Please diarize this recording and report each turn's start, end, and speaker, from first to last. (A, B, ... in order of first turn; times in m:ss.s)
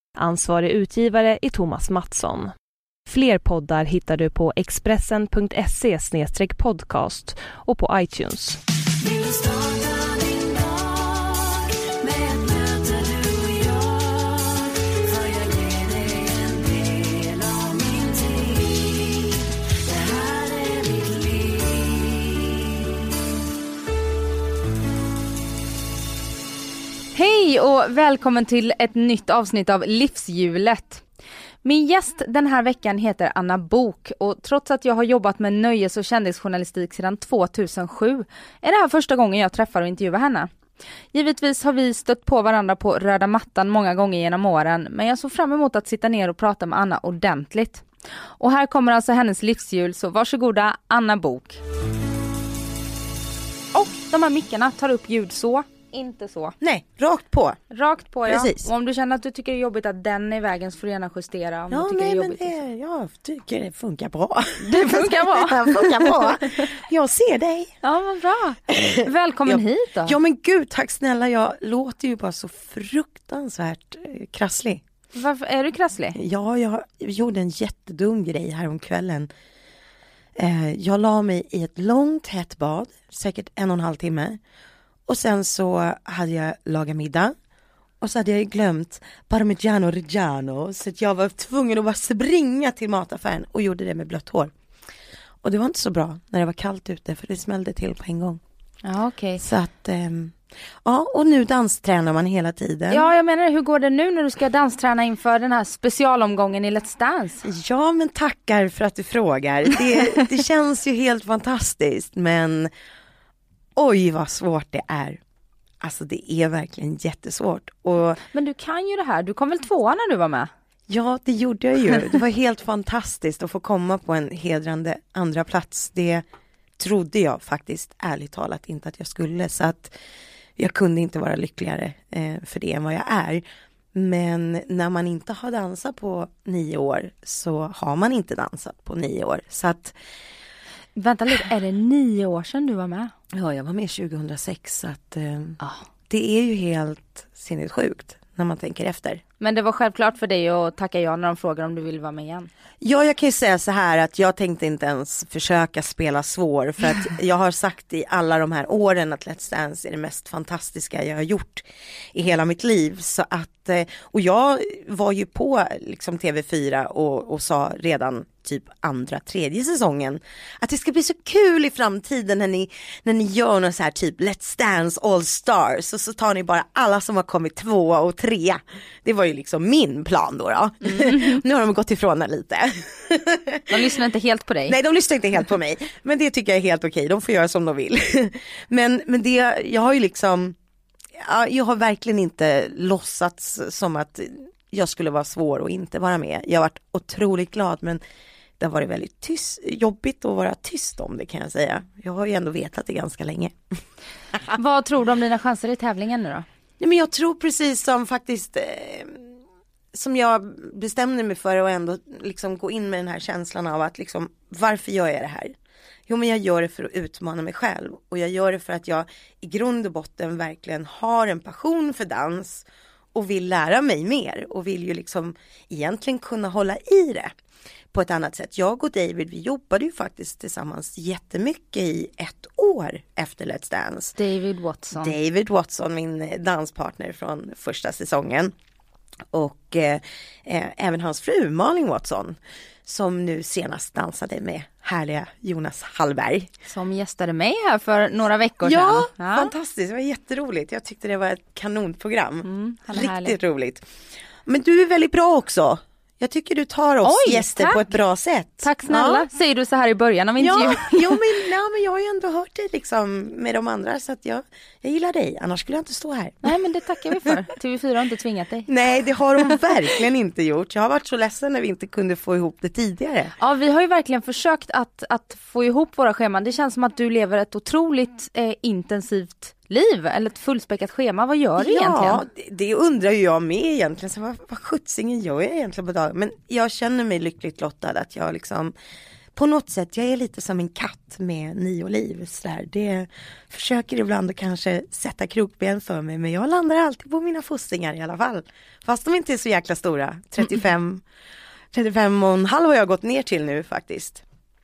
0:00.2-0:02.5 A
0:03.1-0:10.7 A
0:11.3-0:11.6 A
0:12.1-0:13.6 A
0:27.1-0:31.0 B
0:31.6-0:40.5 B
0:41.1-0:47.8 B
0:48.4-0:51.6 B
0:53.7-0:56.6 B
0:56.6-0:57.6 C
0:57.7-1:02.6 B
0:58.2-0:58.7 C
1:01.7-1:07.7 C
1:04.6-1:06.7 B
1:07.8-1:10.2 B
1:08.7-1:14.8 C
1:15.1-1:16.2 B
1:16.2-1:19.3 C
1:20.4-1:24.4 C
1:25.1-1:27.3 C
1:28.0-1:34.5 C
1:35.4-1:38.4 C
1:38.8-1:39.4 B
1:39.4-1:43.1 C
1:42.9-1:47.5 B
1:47.4-1:52.7 C
1:53.8-1:55.2 C
1:55.8-1:58.2 C
1:58.3-2:00.5 B
2:00.9-2:06.2 C
2:06.8-2:09.9 C
2:10.6-2:13.4 C
2:13.9-2:19.9 C
2:20.9-2:23.1 B
2:23.3-2:29.2 C
2:29.4-2:32.5 B
2:32.8-3:03.8 C
3:00.9-3:01.4 B
3:03.7-3:04.8 B
3:04.7-3:10.6 C
3:11.2-3:18.0 C
3:18.6-3:23.5 C
3:24.5-3:26.4 B
3:26.8-3:29.3 C
3:29.9-3:35.5 C
3:36.1-3:47.3 C
3:47.9-3:54.2 C
3:54.2-3:55.1 B
3:54.9-3:58.5 C
3:59.3-4:06.5 C
4:06.6-4:09.5 B
4:08.6-4:13.8 C
4:12.4-4:13.4 B
4:14.4-4:19.2 C
4:17.0-4:17.8 B
4:18.6-4:21.2 B
4:20.4-4:26.6 C
4:26.4-4:28.7 B
4:28.7-4:33.3 C
4:29.4-4:29.6 B
4:33.4-4:42.2 B
4:41.6-4:48.7 C
4:49.3-5:01.0 C
5:01.7-5:04.2 C